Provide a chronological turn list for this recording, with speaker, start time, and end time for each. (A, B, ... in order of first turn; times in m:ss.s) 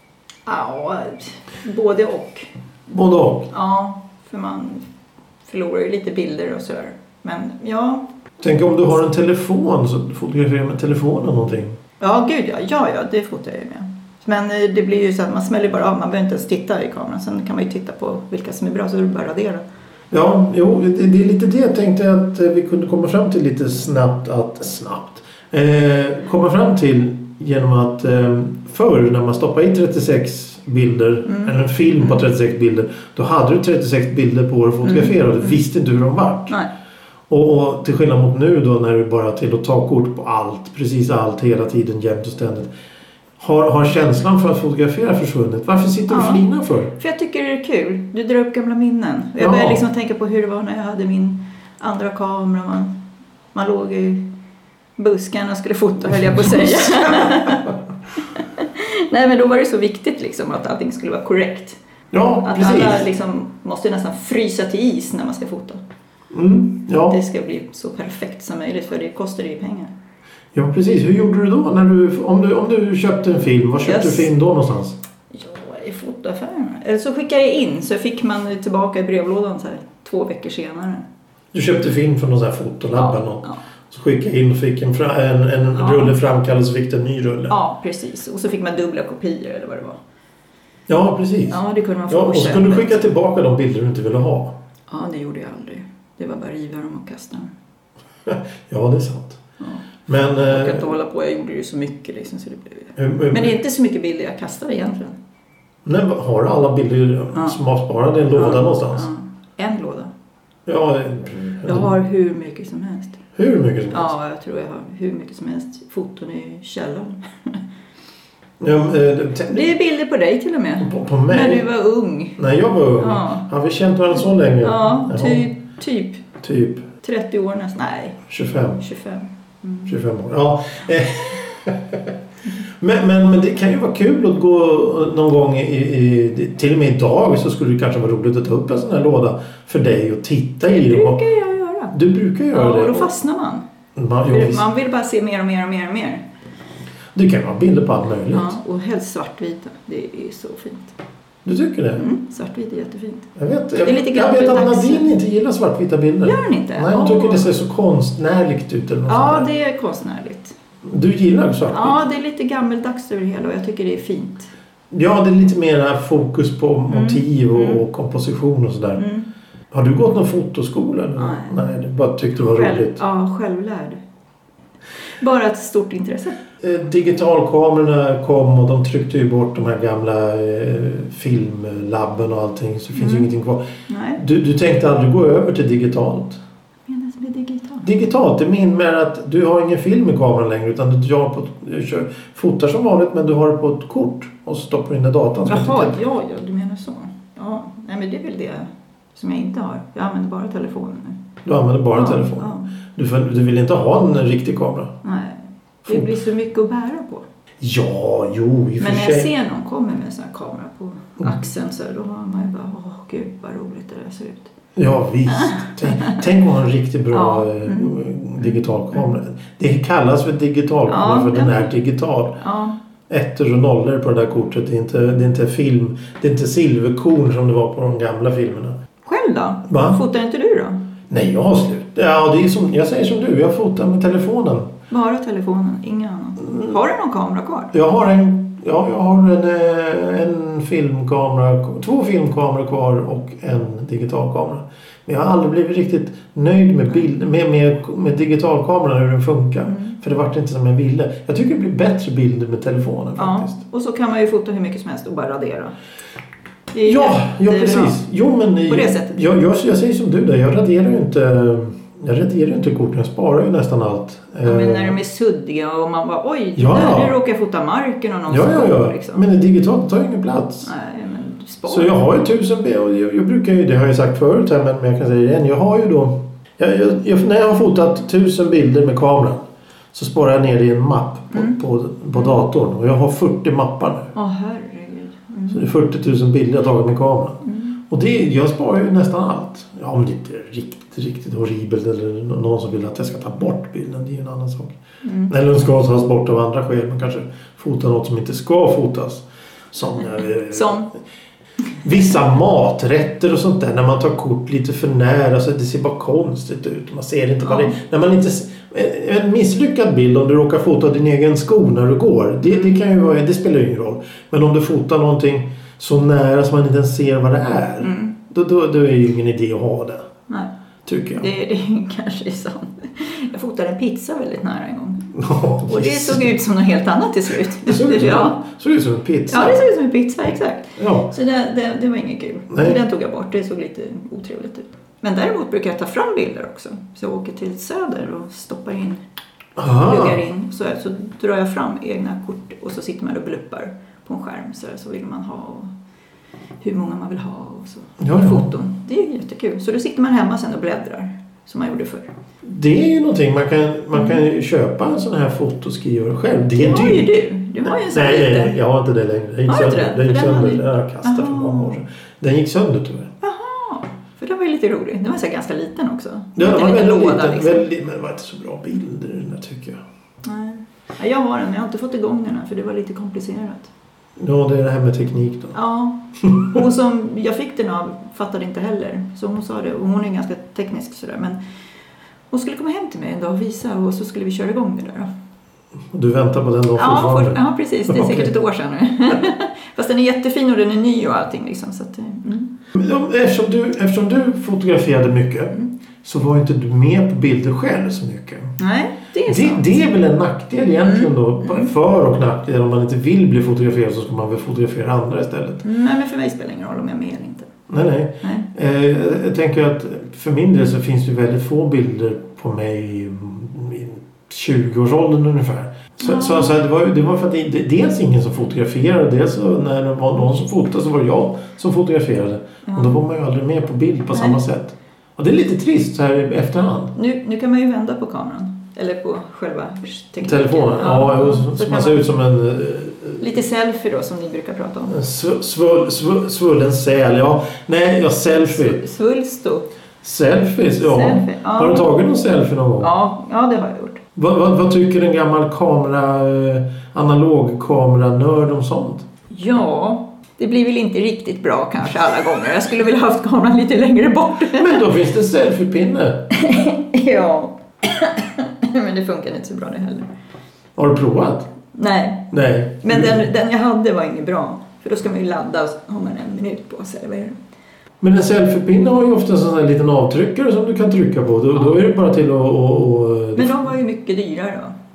0:00.5-0:02.5 A
0:02.9-0:03.5 B
0:03.5-0:04.8 A
0:05.4-0:08.0 A
0:08.4-0:11.8 B
0:12.0-0:19.6 A
0:20.1-0:36.6 B
0:31.2-0:31.5 A
0:34.8-0:35.1 A
0:37.3-0:42.7 B
0:43.4-0:46.9 B
0:46.1-0:46.4 A
0:47.0-0:53.0 A
0:49.4-0:49.8 B
0:53.5-0:54.3 A
0:55.0-0:57.7 A
0:56.2-0:57.7 B
0:58.3-1:01.8 A
1:02.1-1:03.0 B
1:02.4-1:05.8 A
1:06.3-1:07.2 B
1:07.0-1:09.9 A
1:10.5-1:15.0 B
1:13.8-1:14.3 A
1:15.3-1:21.0 A
1:21.5-1:27.6 B
1:22.9-1:23.6 A
1:25.8-1:26.1 A
1:27.5-1:30.0 A
1:30.9-1:34.5 B
1:31.5-1:33.0 A
1:34.9-1:37.5 A
1:38.2-1:39.4 B
1:39.6-1:45.2 A
1:40.1-1:40.9 B
1:43.0-1:43.6 B
1:45.8-1:49.1 B
1:48.3-1:50.1 A
1:50.6-1:51.9 B
1:51.6-1:53.2 A
1:53.4-1:54.1 B
1:53.9-1:57.6 A
1:58.6-1:59.7 B
1:59.5-2:02.4 A
2:00.8-2:01.6 B
2:02.4-2:05.4 B
2:03.0-2:03.4 A
2:04.6-2:06.2 A
2:06.4-2:06.9 B
2:07.0-2:08.2 A
2:08.3-2:08.8 B
2:08.8-2:09.9 A
2:09.8-2:12.1 B
2:12.8-2:21.2 B
2:20.6-2:21.9 A
2:21.9-2:23.1 B
2:22.5-2:23.6 A
2:24.0-2:24.7 B
2:24.2-2:26.2 A
2:27.1-2:28.6 B
2:28.3-2:31.0 A
2:31.4-2:32.0 B
2:32.0-2:33.3 A
2:33.4-2:39.5 B
2:33.8-2:35.1 A
2:36.2-2:37.5 A
2:39.1-2:40.5 A
2:40.8-2:42.0 B
2:41.7-2:44.5 A
2:44.9-2:49.0 B
2:46.9-2:47.8 A
2:49.0-2:49.3 A
2:49.7-2:53.0 B
2:51.2-2:51.6 A
2:52.4-2:54.0 A
2:55.2-2:56.4 A
2:56.6-3:03.6 B
3:02.9-3:03.3 A
3:03.9-3:04.2 A
3:04.2-3:06.4 B
3:06.9-3:07.9 A
3:07.8-3:16.0 B
3:15.4-3:21.2 A
3:21.4-3:24.9 B
3:21.9-3:22.7 A
3:25.0-3:27.2 A
3:25.8-3:26.1 B
3:27.6-3:29.3 B
3:28.8-3:34.5 A
3:34.8-3:42.4 B
3:35.3-3:36.2 A
3:37.1-3:38.6 A
3:40.9-3:41.7 A
3:42.4-3:42.8 A
3:43.1-3:48.8 B
3:49.0-3:50.8 A
3:49.7-3:50.0 B
3:51.1-3:54.7 B
3:54.9-3:57.7 A
3:57.7-4:13.6 B
4:09.6-4:10.0 A
4:13.2-4:15.7 A
4:16.7-4:18.0 A
4:16.8-4:25.0 B
4:18.7-4:19.2 A
4:24.4-4:29.2 A
4:26.6-4:27.1 B
4:28.3-4:30.7 B
4:30.6-4:31.9 A
4:31.7-4:39.4 B
4:39.9-4:44.1 B
4:41.3-4:41.6 A
4:44.1-4:45.6 A
4:45.5-4:54.8 B
4:47.4-4:47.8 A
4:55.0-4:55.3 A
4:55.3-5:00.8 B
5:00.5-5:00.9 A
5:01.8-5:20.1 B
5:07.4-5:07.8 A
5:17.8-5:18.2 A
5:20.8-5:21.3 B
5:21.2-5:25.1 A
5:25.1-5:26.3 B
5:25.6-5:28.4 A
5:27.6-5:29.6 B
5:29.3-5:39.0 A
5:30.8-5:31.1 B
5:32.5-5:32.8 B
5:39.6-5:40.2 B
5:39.8-5:45.7 A
5:46.6-5:52.1 A
5:48.0-5:48.5 B
5:52.4-6:03.1 B
5:56.6-5:58.6 A
5:59.5-6:01.8 A
6:03.2-6:07.7 A
6:06.4-6:09.8 B
6:10.2-6:13.7 A
6:14.2-6:15.6 B
6:15.5-6:21.4 A
6:22.3-6:25.1 A
6:25.9-6:28.3 B
6:26.7-6:32.5 A
6:32.7-6:38.6 B
6:38.6-6:39.8 A
6:39.3-6:45.6 B
6:40.8-6:41.7 A
6:45.6-6:47.5 A
6:47.7-7:06.9 B
6:56.0-6:56.5 A
7:02.6-7:03.0 A
7:04.1-7:04.4 A
7:06.9-7:12.0 A
7:10.2-7:13.2 B
7:13.2-7:15.0 A
7:14.9-7:18.8 B
7:18.5-7:19.7 A
7:20.0-7:22.9 B
7:20.8-7:21.9 A
7:22.8-7:24.0 A
7:24.2-7:29.0 B
7:29.3-7:34.9 A
7:34.5-7:36.3 B
7:36.3-7:40.1 A
7:40.8-7:41.5 B
7:41.7-7:47.4 A
7:42.3-7:43.3 B
7:48.0-7:53.7 B
7:53.3-7:54.7 A